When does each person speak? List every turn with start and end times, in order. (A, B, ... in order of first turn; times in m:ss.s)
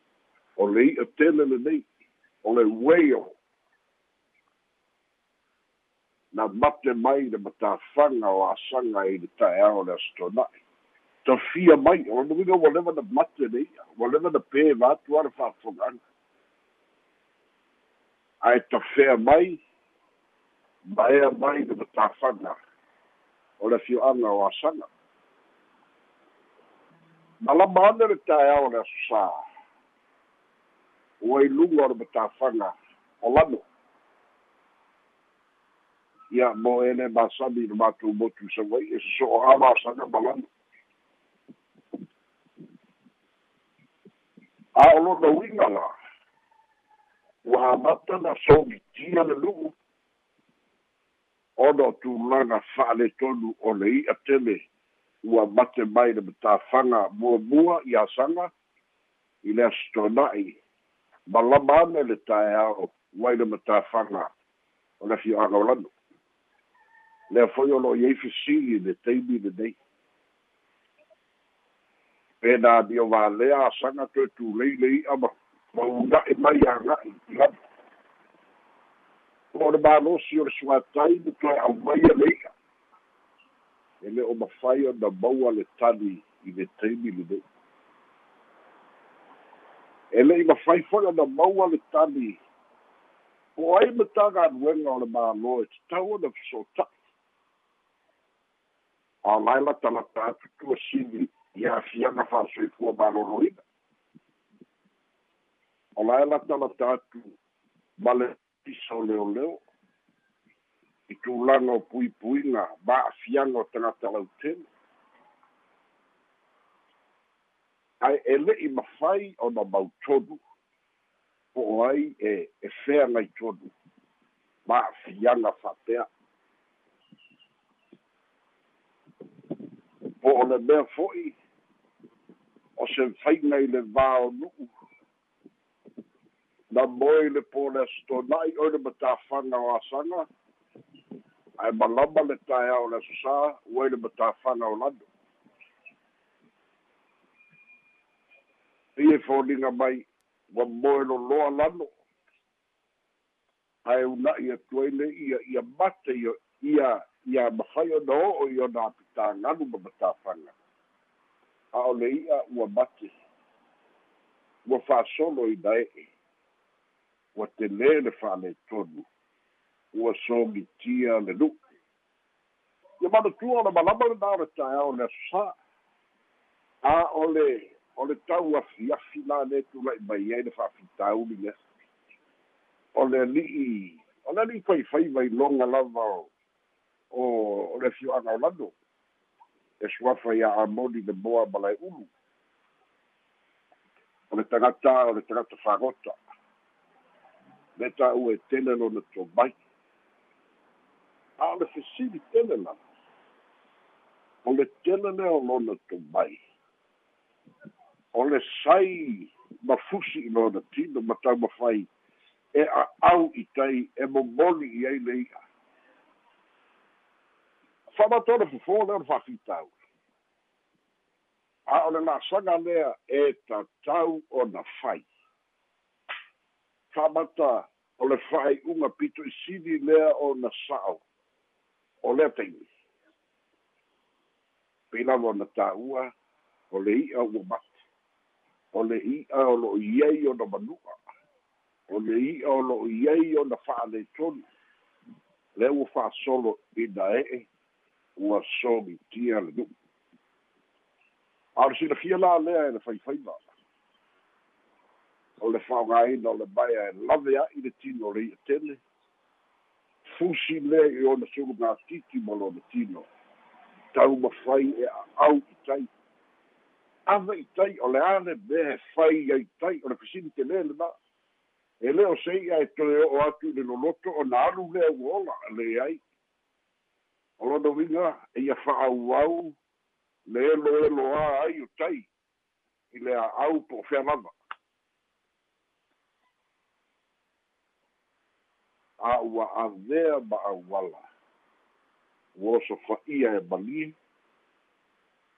0:00.6-0:01.9 A
0:02.4-0:03.4 A
0:06.3-0:10.5 A
0:11.2-0:16.0 A
0:18.4-0:19.6 A
0:20.8-0:22.6 A
0:23.6-0:24.9 A
0:27.4-0:29.4 A
0:31.2-0:33.7 A
0:36.3-0:40.5 A
0:44.8-0:45.9 A
0:47.4-0:49.8 A
0:51.6-0:54.6 A
0:55.2-0:58.5 A
0:59.4-1:00.6 A
1:01.3-1:04.3 A
1:05.0-1:05.9 A
1:07.3-1:09.8 A
1:12.4-1:17.6 A
1:19.5-1:22.4 A
1:24.0-1:27.4 A
1:30.1-1:32.4 A
1:33.6-1:36.9 A
1:39.2-1:43.6 A
1:46.0-1:47.4 A
1:48.0-1:49.6 A
1:51.1-1:54.7 A
1:58.0-2:00.4 A
2:01.5-2:03.7 A
2:04.7-2:06.1 A
2:10.2-2:11.4 A
2:12.8-2:14.7 A
2:16.7-2:20.3 A
2:21.6-2:25.0 A
2:29.0-2:31.9 A
2:33.9-2:40.6 A
2:41.7-2:43.1 A
2:44.6-2:46.1 A
2:47.4-2:49.1 A
2:49.9-2:51.6 A
2:53.0-2:55.6 A
2:56.8-3:01.6 A
3:03.0-3:06.3 A
3:07.1-3:08.7 A
3:09.8-3:12.1 A
3:14.3-3:16.2 A
3:17.8-3:19.6 A
3:21.4-3:22.8 A
3:24.4-3:26.4 A
3:28.1-3:31.9 A
3:32.6-3:35.3 A
3:38.0-3:39.7 A
3:41.7-3:45.1 A
3:46.9-3:51.0 A
3:52.0-3:52.7 A
3:54.9-3:56.1 A
3:56.7-3:57.8 A
3:58.7-4:01.0 A
4:01.9-4:04.4 A
4:05.6-4:07.5 A
4:08.2-4:09.7 A
4:11.6-4:13.4 A
4:15.4-4:18.8 A
4:20.1-4:23.1 A
4:23.9-4:25.9 A
4:27.1-4:30.9 A
4:31.8-4:36.0 A
4:37.4-4:39.6 A
4:40.3-4:42.1 A
4:42.9-4:44.3 A
4:49.0-4:51.0 A
4:52.4-4:54.0 A